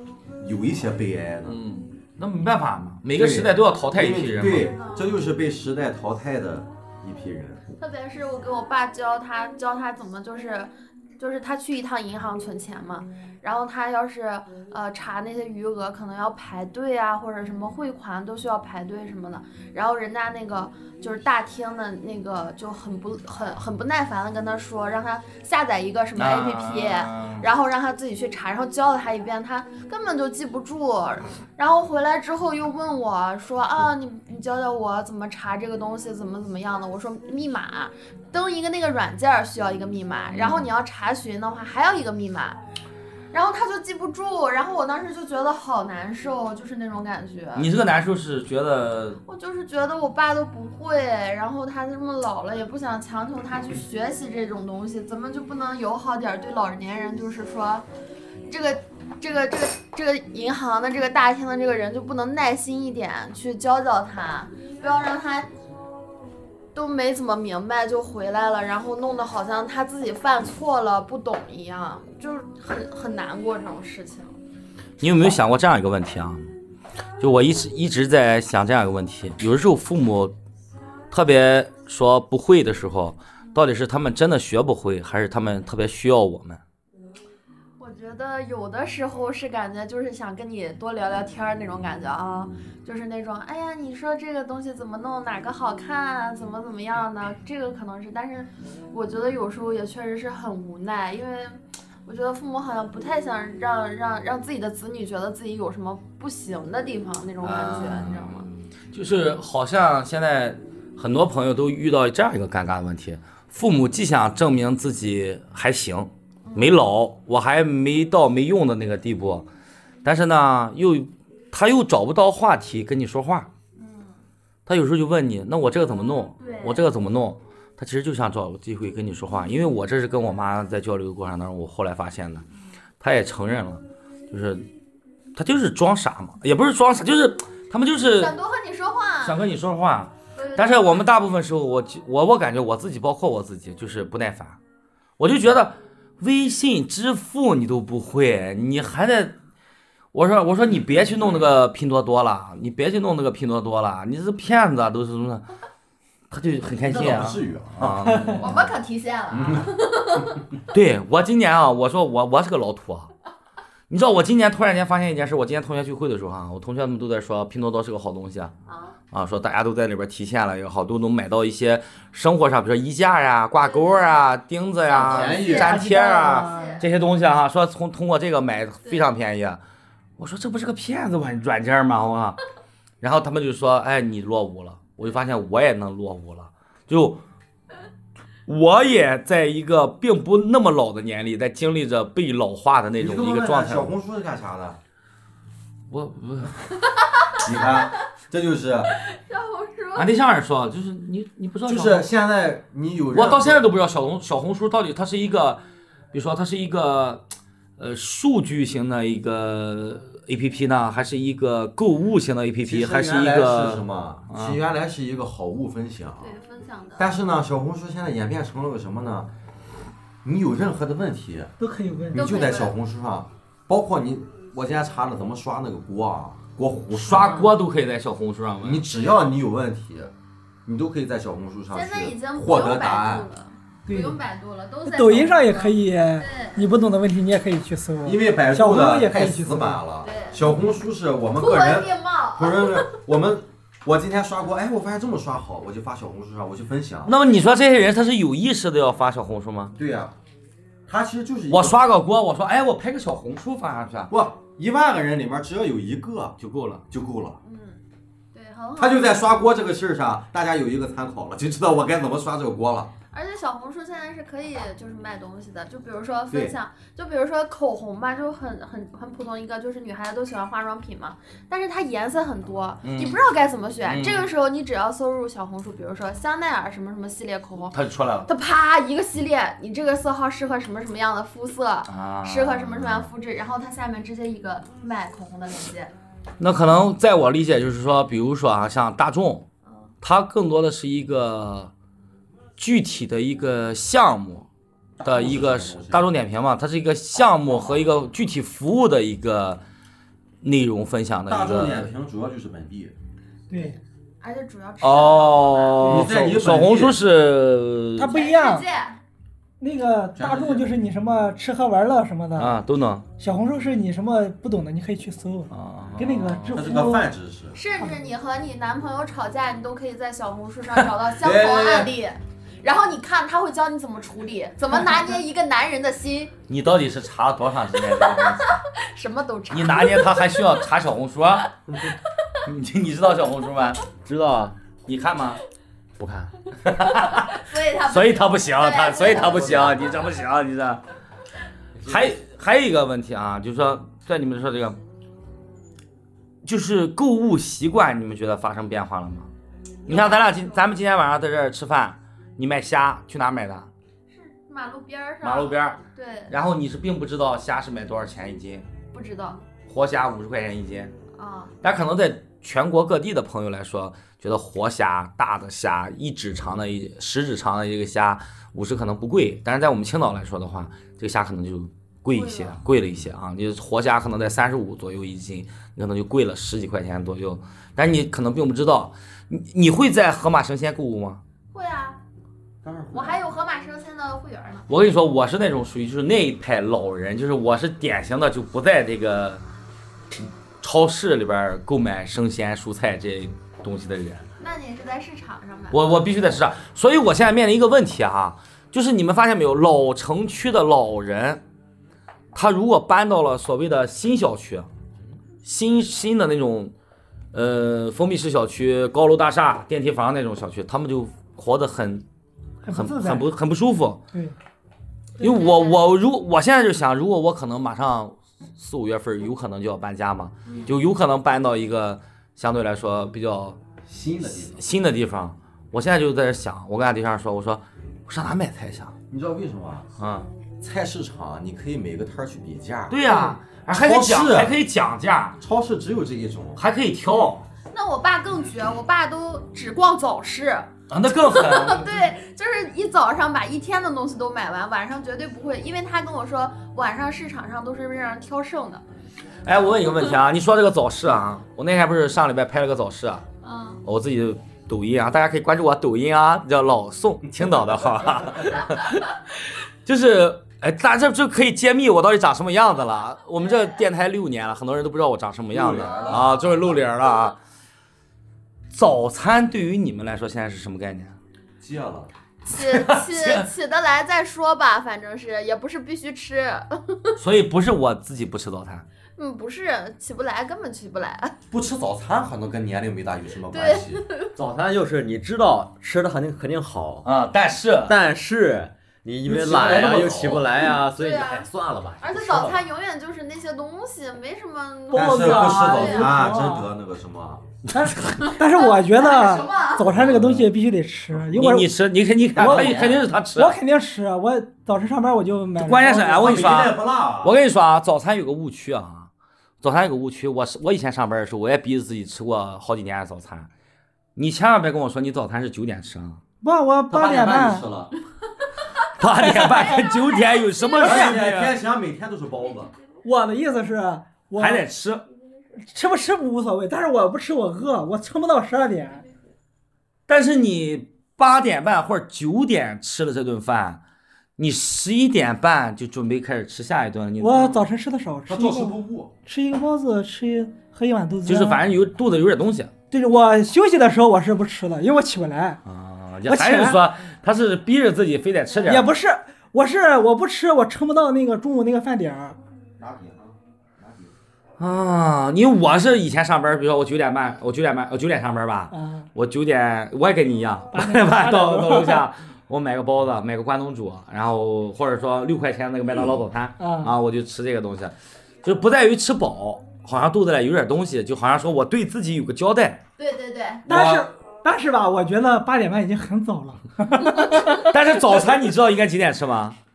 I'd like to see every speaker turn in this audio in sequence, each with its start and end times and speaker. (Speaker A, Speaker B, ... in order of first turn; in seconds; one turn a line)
Speaker A: 0.4-1.6
Speaker B: 1.4-4.7
Speaker A: 3.1-7.6
Speaker C: 4.6-5.2
Speaker C: 7.8-42.6
Speaker B: 26.1-27.5
Speaker B: 40.3-40.7
Speaker C: 43.3-47.7
Speaker B: 47.5-49.2
Speaker C: 49.2-57.9
Speaker C: 58.5-65.5
Speaker C: 66.7-74.4
Speaker B: 75.0-76.5
Speaker B: 77.2-80.3
Speaker B: 81.1-86.6
Speaker C: 87.8-108.5
Speaker B: 107.4-119.5
Speaker C: 116.5-116.8
Speaker B: 120.0-123.5
Speaker C: 123.8-124.2
Speaker B: 124.7-132.4
Speaker C: 126.4-126.8
Speaker B: 133.0-134.7
Speaker B: 135.3-138.3
Speaker C: 138.1-139.4
Speaker B: 139.2-144.6
Speaker C: 140.3-141.1
Speaker B: 145.2-149.3
Speaker B: 150.1-155.4
Speaker B: 156.3-158.6
Speaker A: 156.6-158.5
Speaker C: 158.4-160.4
Speaker A: 159.3-159.7
Speaker B: 160.7-163.1
Speaker B: 163.9-168.5
Speaker C: 168.7-168.9
Speaker B: 169.1-179.6
Speaker C: 173.6-174.2
Speaker C: 174.9-176.8
Speaker A: 175.0-175.8
Speaker D: 175.2-176.8
Speaker B: 180.2-182.4
Speaker B: 183.0-187.2
Speaker B: 188.5-193.9
Speaker A: 193.0-194.8
Speaker B: 195.9-196.7
Speaker C: 196.9-197.5
Speaker A: 197.4-198.9
Speaker C: 198.9-200.1
Speaker B: 199.9-202.1
Speaker A: 201.7-203.7
Speaker B: 203.1-205.6
Speaker B: 206.1-207.2
Speaker B: 207.8-214.6
Speaker A: 212.6-216.3
Speaker C: 216.2-217.1
Speaker A: 217.0-219.3
Speaker A: 220.2-221.5
Speaker D: 221.6-222.3
Speaker A: 222.1-227.5
Speaker C: 222.1-222.7
Speaker B: 226.9-228.8
Speaker A: 228.6-230.1
Speaker A: 230.6-233.3
Speaker C: 231.7-236.6
Speaker D: 233.9-234.2
Speaker D: 234.8-239.8
Speaker A: 238.0-247.1
Speaker C: 240.0-240.4
Speaker C: 241.3-243.0
Speaker B: 247.1-249.8
Speaker A: 249.8-250.1
Speaker A: 250.9-251.8
Speaker B: 251.5-254.1
Speaker A: 254.1-256.4
Speaker B: 256.4-256.8
Speaker A: 256.9-257.4
Speaker C: 257.4-257.8
Speaker C: 258.3-259.2
Speaker A: 258.8-262.9
Speaker C: 263.1-285.9
Speaker B: 272.8-273.2
Speaker B: 273.8-274.3
Speaker B: 277.7-278.3
Speaker B: 281.9-283.1
Speaker B: 286.4-289.5
Speaker B: 290.0-291.7
Speaker B: 292.6-294.5
Speaker A: 295.0-296.1
Speaker B: 295.0-299.6
Speaker B: 300.4-301.9
Speaker A: 301.3-302.9
Speaker D: 303.5-303.8
Speaker C: 304.2-306.0
Speaker B: 304.8-308.1
Speaker A: 305.8-307.0
Speaker D: 308.0-308.6
Speaker C: 308.1-309.0
Speaker D: 309.6-312.5
Speaker A: 310.1-310.7
Speaker B: 312.3-313.1
Speaker D: 313.2-317.1
Speaker B: 315.5-316.7
Speaker A: 316.5-317.6
Speaker C: 317.5-326.3
Speaker A: 321.2-321.9
Speaker B: 326.5-328.6
Speaker C: 328.0-330.3
Speaker B: 329.5-331.6
Speaker B: 332.4-333.8
Speaker E: 333.9-334.6
Speaker B: 334.9-335.4
Speaker B: 336.0-340.8
Speaker C: 336.8-339.9
Speaker A: 339.4-339.7
Speaker B: 341.8-344.8
Speaker B: 346.4-349.3
Speaker C: 349.9-350.6
Speaker B: 349.9-353.7
Speaker C: 354.1-356.3
Speaker B: 355.2-358.6
Speaker C: 358.9-359.4
Speaker B: 359.7-360.9
Speaker C: 361.1-361.5
Speaker B: 361.6-381.2
Speaker C: 372.1-372.6
Speaker C: 381.5-382.0
Speaker A: 382.6-383.3
Speaker C: 382.9-384.6
Speaker B: 384.7-389.4
Speaker B: 390.6-394.3
Speaker C: 394.4-396.2
Speaker B: 395.7-401.4
Speaker B: 402.3-404.7
Speaker B: 405.4-406.7
Speaker B: 407.3-412.0
Speaker D: 412.6-413.2
Speaker B: 412.7-414.0
Speaker B: 415.2-423.6
Speaker C: 415.2-415.8
Speaker C: 420.4-420.7
Speaker A: 423.8-424.6
Speaker B: 424.4-428.9
Speaker A: 429.1-429.9
Speaker B: 430.0-430.3
Speaker A: 430.6-434.5
Speaker B: 432.9-435.4
Speaker A: 435.4-436.6
Speaker B: 436.6-437.4
Speaker C: 437.7-440.7
Speaker B: 440.9-441.9
Speaker C: 441.2-448.8
Speaker B: 449.4-453.2
Speaker C: 453.4-453.8
Speaker B: 453.8-467.4
Speaker A: 457.4-458.1
Speaker A: 465.5-466.8
Speaker C: 465.8-466.3
Speaker B: 468.7-471.2
Speaker A: 471.6-472.1
Speaker C: 472.4-477.1
Speaker B: 472.5-473.5
Speaker B: 477.2-478.9
Speaker C: 479.2-481.3
Speaker A: 481.5-484.0
Speaker C: 483.5-484.3
Speaker E: 484.3-487.1
Speaker B: 487.0-488.0
Speaker E: 487.9-492.6
Speaker A: 489.2-490.5
Speaker C: 490.1-491.5
Speaker C: 492.0-496.2
Speaker D: 494.9-496.7
Speaker A: 494.9-497.5
Speaker D: 497.7-501.7
Speaker B: 497.8-498.1
Speaker C: 498.2-499.9
Speaker B: 499.9-500.5
Speaker B: 501.1-503.6
Speaker A: 502.4-503.1
Speaker D: 502.4-506.4
Speaker B: 505.6-509.1
Speaker A: 506.2-507.4
Speaker B: 509.6-513.5
Speaker B: 514.1-516.2
Speaker D: 516.4-517.6
Speaker A: 516.9-517.9
Speaker B: 518.9-521.5
Speaker D: 519.2-519.9
Speaker D: 520.8-521.2
Speaker A: 520.8-522.7
Speaker D: 523.0-524.6
Speaker B: 524.4-525.0
Speaker D: 525.6-529.0
Speaker B: 530.1-533.8
Speaker B: 534.4-537.6
Speaker D: 537.2-541.6
Speaker A: 538.2-539.1
Speaker B: 541.2-542.7
Speaker D: 542.9-545.6
Speaker B: 545.6-548.9
Speaker D: 546.3-546.8
Speaker D: 548.7-552.4
Speaker A: 552.8-554.1
Speaker B: 554.6-572.8
Speaker D: 558.7-559.1
Speaker D: 560.7-562.0
Speaker D: 566.6-566.9
Speaker C: 573.0-573.6
Speaker D: 573.7-577.7
Speaker B: 573.7-574.0
Speaker B: 577.5-579.6